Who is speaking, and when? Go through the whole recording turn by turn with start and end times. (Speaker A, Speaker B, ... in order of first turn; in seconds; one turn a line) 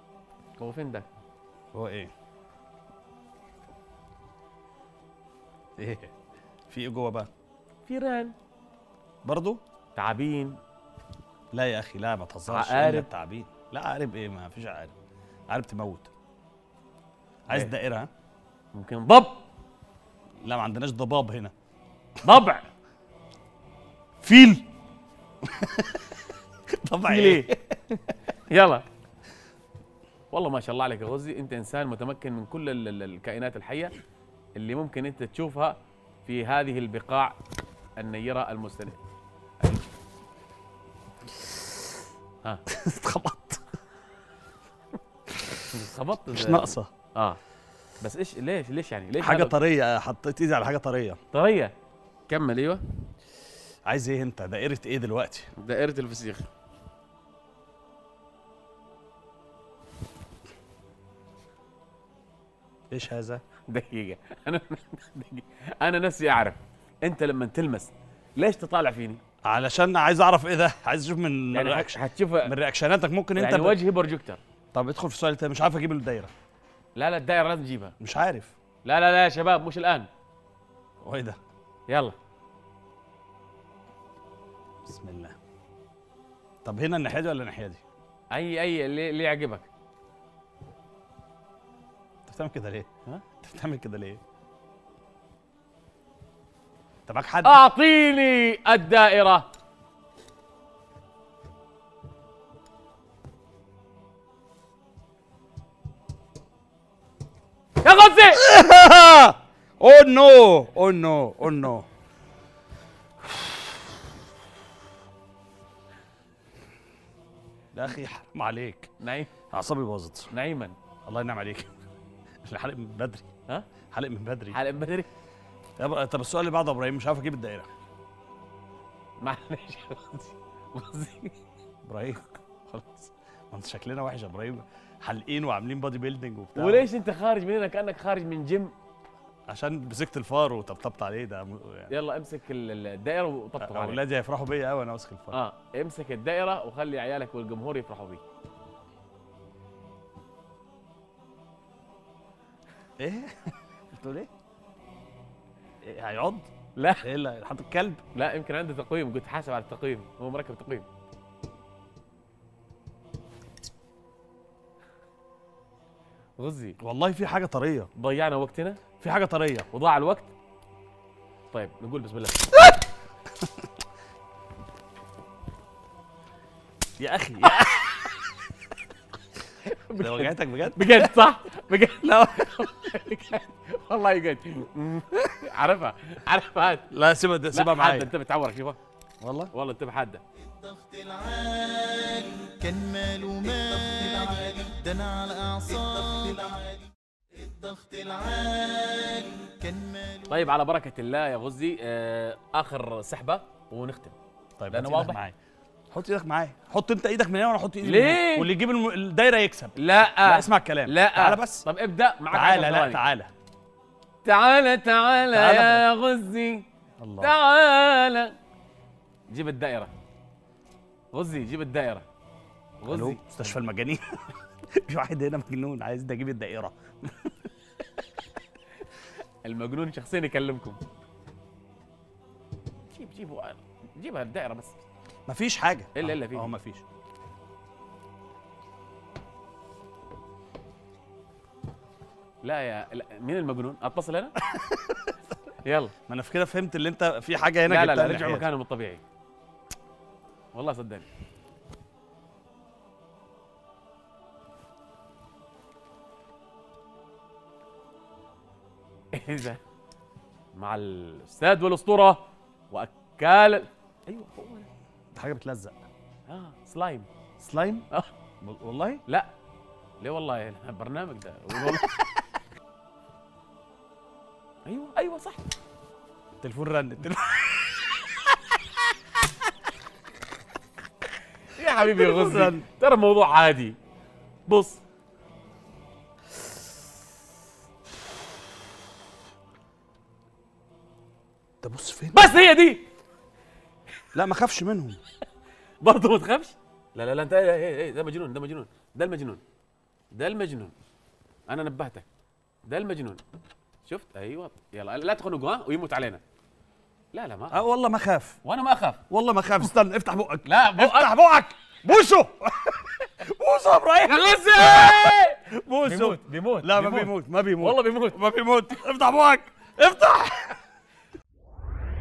Speaker A: 0.6-1.1
Speaker B: 1.7-2.1
Speaker B: 5.8-6.1
Speaker B: 6.7-7.3
Speaker A: 7.8-8.3
Speaker B: 9.2-9.6
Speaker A: 9.9-10.6
Speaker B: 11.5-14.9
Speaker A: 12.5-13.1
Speaker B: 15.5-16.1
Speaker B: 17.5-18.1
Speaker A: 18.7-19.4
Speaker B: 20.4-21.5
Speaker A: 22.2-22.7
Speaker B: 24.2-24.6
Speaker B: 25.4-26.0
Speaker B: 26.8-27.7
Speaker A: 27.1-27.5
Speaker A: 28.5-28.8
Speaker A: 30.3-33.9
Speaker A: 34.5-37.4
Speaker A: 38.0-39.0
Speaker B: 42.7-43.6
Speaker A: 45.7-47.4
Speaker B: 46.3-46.9
Speaker A: 48.0-49.5
Speaker B: 49.2-51.2
Speaker A: 51.3-51.7
Speaker A: 52.3-52.8
Speaker B: 53.9-55.5
Speaker A: 55.6-56.5
Speaker B: 62.9-63.4
Speaker A: 63.7-69.2
Speaker B: 69.4-73.8
Speaker A: 71.5-72.5
Speaker A: 73.3-74.4
Speaker B: 74.7-76.3
Speaker A: 77.0-77.9
Speaker B: 78.0-78.5
Speaker A: 78.8-80.1
Speaker B: 81.0-81.4
Speaker A: 81.9-82.2
Speaker B: 84.8-85.4
Speaker B: 86.6-87.8
Speaker A: 88.3-89.7
Speaker B: 92.3-94.2
Speaker B: 97.1-97.5
Speaker A: 97.4-99.5
Speaker A: 107.8-108.4
Speaker B: 108.3-111.8
Speaker B: 113.2-113.6
Speaker B: 117.7-118.9
Speaker A: 119.0-119.3
Speaker B: 119.5-120.3
Speaker A: 120.3-120.8
Speaker B: 121.0-121.7
Speaker B: 122.4-123.3
Speaker B: 123.9-124.6
Speaker A: 124.5-125.1
Speaker B: 125.8-127.7
Speaker A: 129.2-131.3
Speaker B: 131.8-136.8
Speaker A: 136.6-138.7
Speaker B: 139.5-141.9
Speaker A: 141.9-144.0
Speaker B: 143.6-145.4
Speaker A: 145.3-148.2
Speaker B: 153.0-154.3
Speaker B: 155.8-156.5
Speaker A: 156.8-157.0
Speaker B: 157.0-158.0
Speaker A: 158.1-160.9
Speaker A: 166.4-166.8
Speaker B: 166.8-167.9
Speaker A: 168.0-168.8
Speaker B: 169.0-169.7
Speaker A: 169.7-170.3
Speaker A: 171.5-172.7
Speaker B: 177.0-178.1
Speaker A: 177.5-177.8
Speaker A: 179.6-186.9
Speaker B: 180.0-181.1
Speaker B: 182.0-182.3
Speaker B: 186.9-188.1
Speaker A: 187.5-188.8
Speaker B: 189.2-189.5
Speaker A: 189.5-190.2
Speaker C: 190.6-200.3
Speaker A: 200.3-204.2
Speaker B: 204.6-205.3
Speaker A: 204.7-205.2
Speaker B: 205.9-211.6
Speaker A: 207.8-208.5
Speaker A: 209.8-213.0
Speaker B: 212.3-213.3
Speaker A: 214.2-216.6
Speaker B: 215.3-215.8
Speaker B: 217.0-217.3
Speaker A: 217.2-218.3
Speaker A: 219.3-219.9
Speaker A: 221.1-222.1
Speaker A: 222.8-223.5
Speaker B: 222.9-224.2
Speaker B: 224.7-227.3
Speaker A: 229.4-230.8
Speaker A: 232.9-234.8
Speaker B: 235.3-236.8
Speaker A: 235.9-236.5
Speaker A: 242.4-244.3
Speaker B: 244.6-245.0
Speaker A: 245.6-245.9
Speaker B: 246.1-248.5
Speaker A: 247.7-249.0
Speaker A: 250.5-251.1
Speaker A: 259.1-259.6
Speaker A: 260.5-264.7
Speaker B: 265.1-265.8
Speaker A: 266.3-267.1
Speaker B: 267.4-267.9
Speaker B: 268.4-269.0
Speaker A: 270.0-272.0
Speaker A: 274.6-275.4
Speaker B: 276.4-277.6
Speaker A: 278.1-278.6
Speaker A: 281.5-283.8
Speaker B: 281.8-282.6
Speaker A: 284.5-284.8
Speaker B: 291.6-292.3
Speaker A: 292.1-292.9
Speaker B: 294.1-295.0
Speaker A: 295.8-299.4
Speaker A: 300.1-300.7
Speaker A: 301.5-302.1
Speaker A: 302.6-303.2
Speaker A: 303.8-306.2
Speaker A: 307.1-307.6
Speaker B: 307.5-308.4
Speaker A: 308.4-309.0
Speaker B: 309.1-320.6
Speaker A: 310.4-311.1
Speaker A: 314.0-318.2